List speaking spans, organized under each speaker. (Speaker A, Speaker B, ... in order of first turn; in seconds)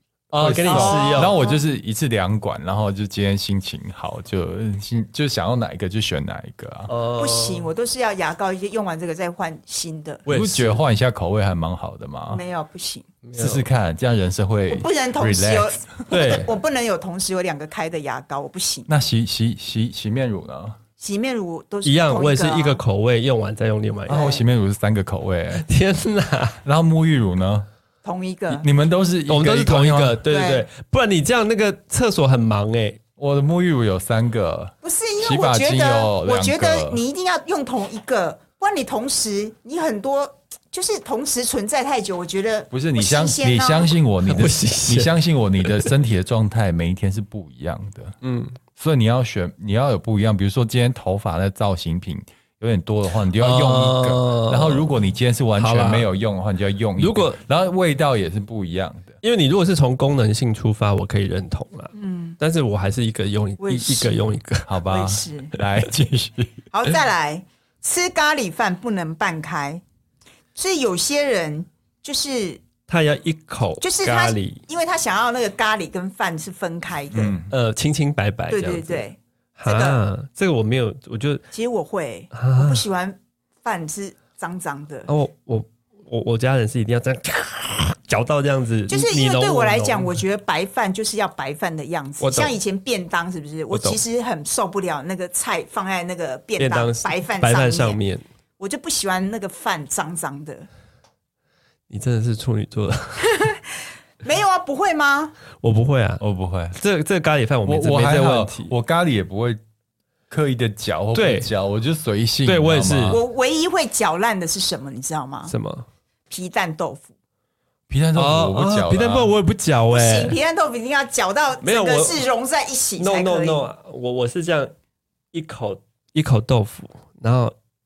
Speaker A: 0.3-6.9, 10.3-12.4, 13.3-15.8, 18.9-20.8, 24.1-25.6, 26.6-27.7, 28.5-30.2, 33.2-37.0, 42.7-48.1, 48.8-59.2, 64.7-66.6, 77.1-77.5, 106.2-106.8, 107.7-109.6, 110.3-113.2, 117.9-119.3
Speaker B: 0.3-1.4, 6.9-7.7, 10.3-10.8, 13.2-13.7, 16.1-16.5, 21.8-24.3, 25.6-26.6, 29.3-33.0, 44.3-45.9, 48.2-48.6, 53.4-54.9, 55.6-56.1, 57.0-57.4, 59.2-64.7, 72.9-74.6, 77.5-79.1, 79.6-81.4, 82.3-82.8, 85.1-90.2, 92.2-92.6, 93.7-94.0, 96.6-98.2, 101.9-103.2, 105.6-106.2, 106.8-108.7, 111.1-111.5, 112.5-113.2, 115.5-115.9, 118.2-120.4, 121.6-122.2, 123.0-124.7, 125.3-127.5
Speaker C: 0.7-1.6, 7.1-10.2, 12.3-13.1, 14.7-18.9, 21.0-22.8, 24.1-24.4, 28.0-28.6, 30.3-30.7, 34.8-44.0, 62.0-62.4, 63.6-64.2, 64.9-65.5, 66.7-69.8, 70.5-72.6, 73.8-77.3, 78.5-80.0, 81.5-85.1, 88.9-98.0, 98.6-100.7, 103.2-103.6, 104.2-105.4, 113.1-115.5, 116.3-117.1, 119.9-123.7